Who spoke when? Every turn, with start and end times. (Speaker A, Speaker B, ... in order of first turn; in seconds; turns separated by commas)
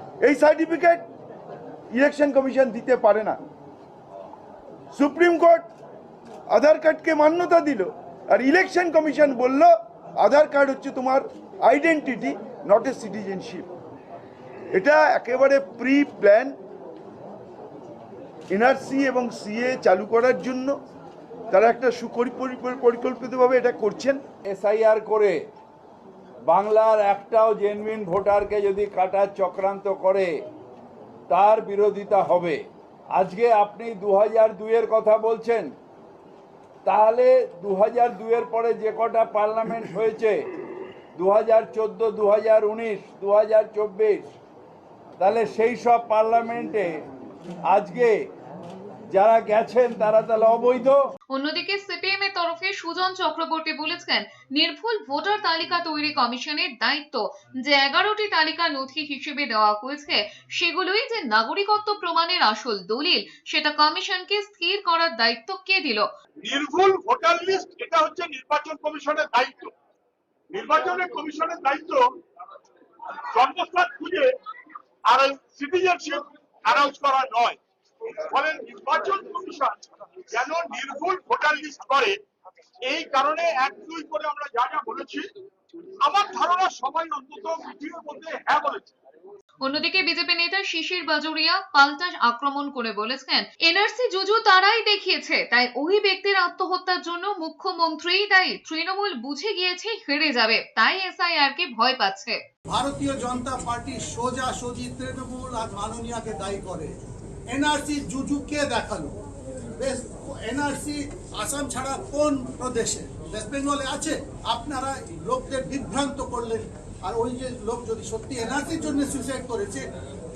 Speaker A: 0.2-1.0, Speaker A: 1.9-3.4, Speaker A: 4.9-5.7, Speaker A: 6.5-13.7, Speaker A: 14.7-16.5, Speaker A: 18.5-20.8, Speaker A: 21.5-24.2, Speaker B: 24.5-25.4, Speaker B: 26.5-30.3, Speaker B: 31.3-32.6, Speaker B: 33.1-35.7, Speaker B: 36.9-40.4, Speaker B: 41.2-44.3, Speaker B: 45.2-47.0, Speaker B: 47.7-48.2, Speaker B: 49.1-51.0, Speaker C: 51.3-66.1, Speaker D: 66.4-69.7, Speaker D: 70.5-72.1, Speaker D: 73.1-74.3, Speaker D: 75.1-77.6, Speaker D: 78.2-82.2, Speaker D: 82.9-85.3, Speaker D: 86.0-88.9, Speaker C: 89.6-102.4, Speaker E: 102.7-107.0, Speaker E: 107.5-109.2, Speaker E: 109.8-119.9